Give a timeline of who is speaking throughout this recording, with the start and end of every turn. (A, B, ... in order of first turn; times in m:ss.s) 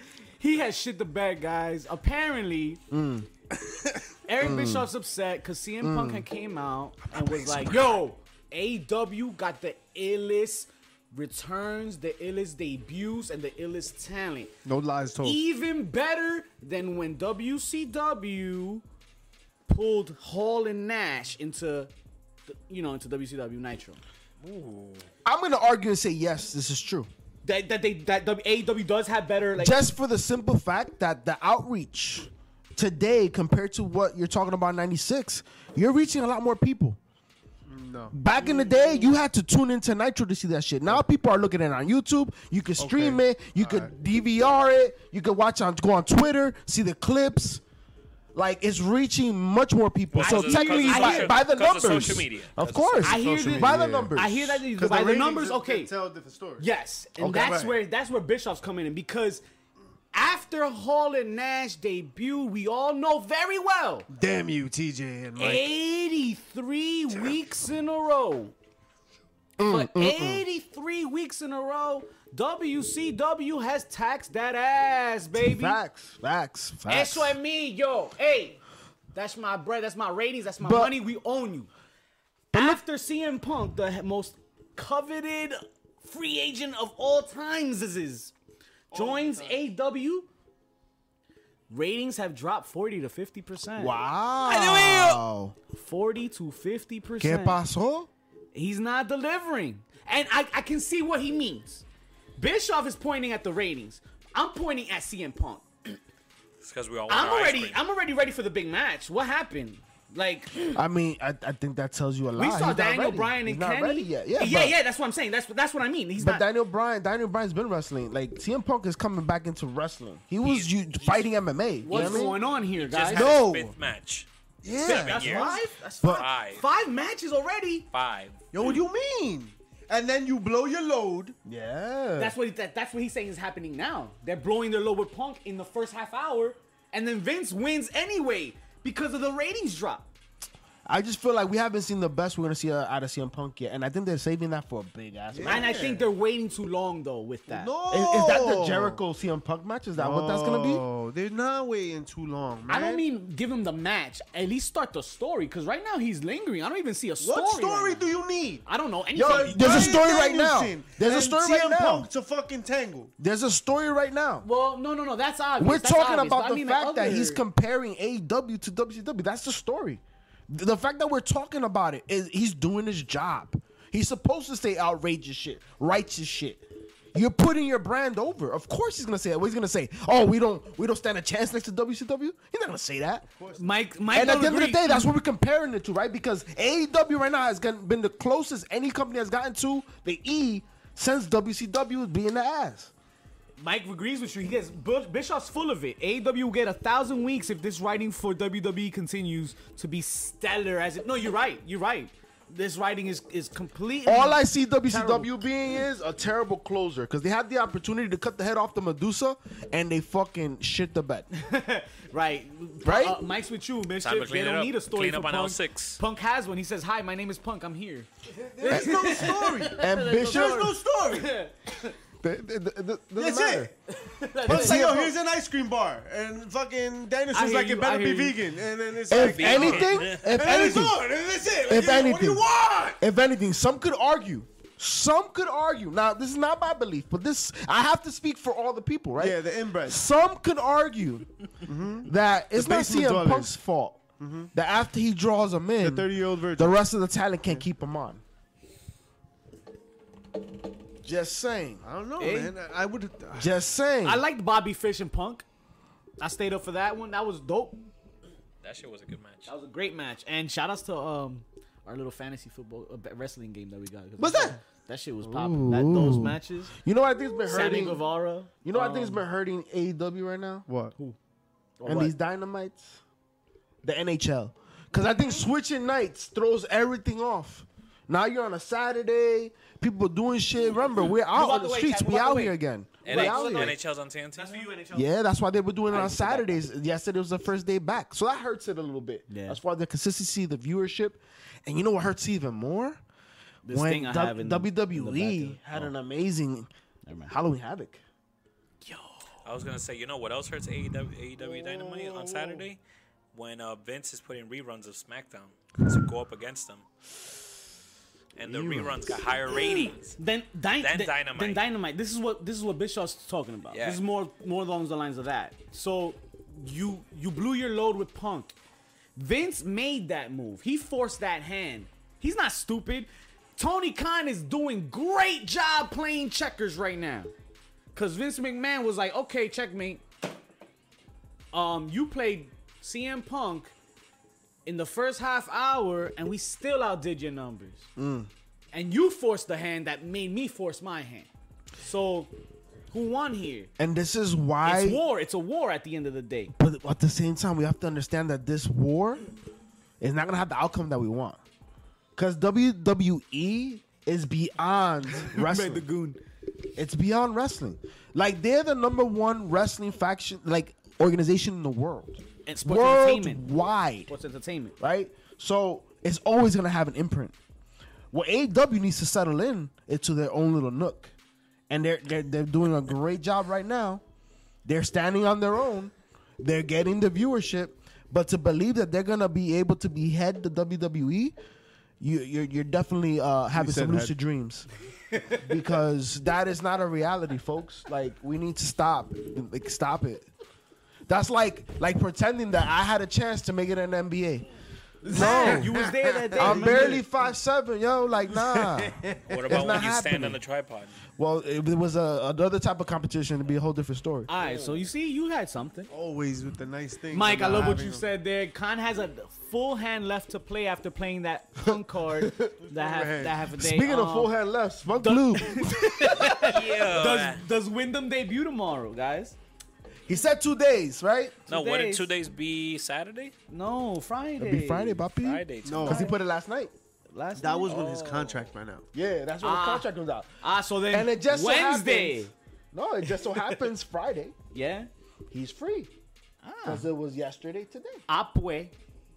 0:00.4-0:02.8 A
0:02.9-0:03.3 B
0:04.3-0:14.5 A
0:04.4-0:04.9 B
0:05.8-0:06.3 B
0:14.6-0:15.4 C
0:15.2-0:18.8 A
0:19.7-0:21.9 A
0:22.4-0:24.0 A
0:24.4-0:25.1 D
0:25.2-0:27.1 B
0:27.4-0:29.9 A
0:29.6-0:37.0 B
0:37.7-0:38.2 C
0:38.1-0:47.6 B
0:38.4-0:39.1 A
0:42.8-0:43.9 C
0:48.3-0:54.6 B
0:50.1-0:53.1 D
0:50.2-0:51.4 A
0:53.0-0:55.9 A
0:53.0-0:54.1 C
0:54.7-0:56.6 C
0:56.6-0:59.4 A
0:57.2-0:57.6 B
0:57.3-0:57.8 C
1:00.1-1:04.1 A
1:04.1-1:05.7 C
1:05.4-1:08.5 A
1:09.6-1:10.4 B
1:09.6-1:15.8 A
1:15.3-1:17.4 B
1:16.9-1:18.6 A
1:19.1-1:21.7 A
1:20.6-1:21.0 B
1:22.5-1:28.3 A
1:22.5-1:22.8 B
1:28.9-1:30.3 A
1:28.9-1:29.6 C
1:31.7-1:34.0 A
1:33.8-1:35.5 B
1:34.4-1:35.2 D
1:35.7-1:37.6 A
1:37.2-1:38.1 B
1:38.5-1:41.8 A
1:42.4-1:46.0 A
1:46.6-1:47.8 D
1:47.1-1:50.8 A
1:50.7-1:54.8 B
1:52.4-1:56.4 A
1:56.2-2:02.4 B
2:00.4-2:01.2 A
2:01.8-2:03.4 A
2:01.9-2:02.2 C
2:02.7-2:04.3 D
2:03.2-2:03.5 C
2:03.2-2:03.6 B
2:04.6-2:05.5 C
2:04.6-2:05.2 B
2:04.8-2:07.9 A
2:04.8-2:06.6 D
2:06.0-2:06.3 B
2:07.9-2:08.4 D
2:08.5-2:11.4 C
2:11.4-2:12.3 B
2:12.2-2:20.1 A
2:20.8-2:25.7 B
2:25.3-2:26.1 C
2:25.4-2:27.7 A
2:27.5-2:29.0 C
2:27.9-2:30.8 B
2:30.0-2:33.0 C
2:32.7-2:38.1 A
2:37.2-2:38.6 C
2:38.6-2:40.0 A
2:39.1-2:42.1 B
2:39.2-2:43.1 C
2:43.2-2:44.5 B
2:44.4-2:47.4 A
2:45.6-2:56.6 B
2:57.1-3:03.2 B
3:03.3-3:03.7 C
3:03.5-3:05.1 A
3:04.1-3:12.9 B
3:13.6-3:25.3 A
3:24.0-3:31.2 B
3:31.3-3:41.9 A
3:32.8-3:33.2 B
3:34.0-3:36.0 D
3:38.5-3:41.3 C
3:38.6-3:40.7 B
3:42.2-3:43.7 B
3:43.2-3:43.7 C
3:43.9-3:44.9 A
3:44.4-3:53.0 C
3:44.4-3:45.2 B
3:47.3-3:48.4 A
3:49.1-3:51.0 B
3:49.1-3:50.6 D
3:51.6-3:52.4 B
3:53.0-4:01.3 B
3:59.2-4:00.0 C
4:01.6-4:03.6 C
4:02.0-4:04.0 B
4:04.2-4:04.5 C
4:04.5-4:08.2 B
4:05.8-4:06.8 C
4:11.0-4:11.8 B
4:11.8-4:13.5 C
4:12.2-4:12.5 A
4:13.4-4:14.2 B
4:14.0-4:15.4 A
4:16.2-4:17.9 A
4:18.6-4:19.5 D
4:19.4-4:26.7 A
4:24.2-4:24.5 B
4:24.2-4:24.5 C
4:25.2-4:28.0 B
4:27.4-4:29.2 A
4:28.6-4:30.7 B
4:30.7-4:30.9 C
4:31.8-4:32.1 A
4:31.8-4:33.0 B
4:33.8-4:43.7 B
4:34.9-4:35.4 A
4:41.2-4:43.8 A
4:43.0-4:44.7 D
4:44.3-4:45.1 A
4:44.9-4:53.0 B
4:45.9-4:46.6 A
4:49.3-4:49.6 A
4:53.6-4:55.9 A
4:53.7-4:56.7 B
4:57.0-4:57.3 A
4:57.3-4:58.0 B
4:58.8-4:59.2 A
4:59.4-5:02.8 D
5:01.4-5:02.6 C
5:03.3-5:06.8 D
5:08.4-5:10.2 D
5:08.5-5:09.2 B
5:09.6-5:18.5 A
5:10.8-5:11.6 D
5:13.7-5:14.0 D
5:19.2-5:27.3 A
5:27.9-5:30.0 A
5:31.5-5:33.7 A
5:34.6-5:37.9 A
5:38.0-5:38.3 B
5:38.7-5:42.3 A
5:42.9-5:43.7 A
5:43.8-5:45.0 B
5:44.6-5:46.5 A
5:46.5-5:49.3 B
5:50.0-5:51.4 B
5:52.2-5:55.8 B
5:55.1-5:56.2 A
5:56.8-6:04.1 B
6:02.4-6:03.5 A
6:04.1-6:04.7 A
6:04.8-6:07.3 B
6:08.1-6:11.1 B
6:11.7-6:14.0 B
6:14.6-6:21.3 B
6:22.0-6:24.7 B
6:23.5-6:24.1 C
6:25.3-6:30.3 B
6:31.1-6:34.4 B
6:35.0-6:37.0 A
6:35.0-6:37.0 C
6:35.1-6:40.4 B
6:38.3-6:39.8 C
6:39.3-6:41.0 D
6:41.2-6:44.3 B
6:44.3-6:45.9 A
6:45.9-6:48.0 C
6:47.1-6:54.3 A
6:51.6-6:52.5 B
6:52.6-6:53.4 C
6:53.6-6:56.5 B
6:54.9-6:59.4 A
6:56.4-6:57.4 D
7:00.1-7:01.4 B
7:01.5-7:02.1 A
7:01.5-7:03.3 D
7:03.5-7:05.0 A
7:04.4-7:06.7 B
7:05.2-7:06.1 D
7:05.6-7:06.1 C
7:07.1-7:08.3 A
7:07.3-7:08.8 C
7:07.7-7:08.4 D
7:08.9-7:14.3 B
7:09.4-7:09.9 A
7:10.4-7:12.3 A
7:13.2-7:13.6 A
7:14.5-7:14.9 A
7:15.3-7:15.9 B
7:16.4-7:16.9 A
7:16.6-7:18.0 B
7:18.1-7:18.7 A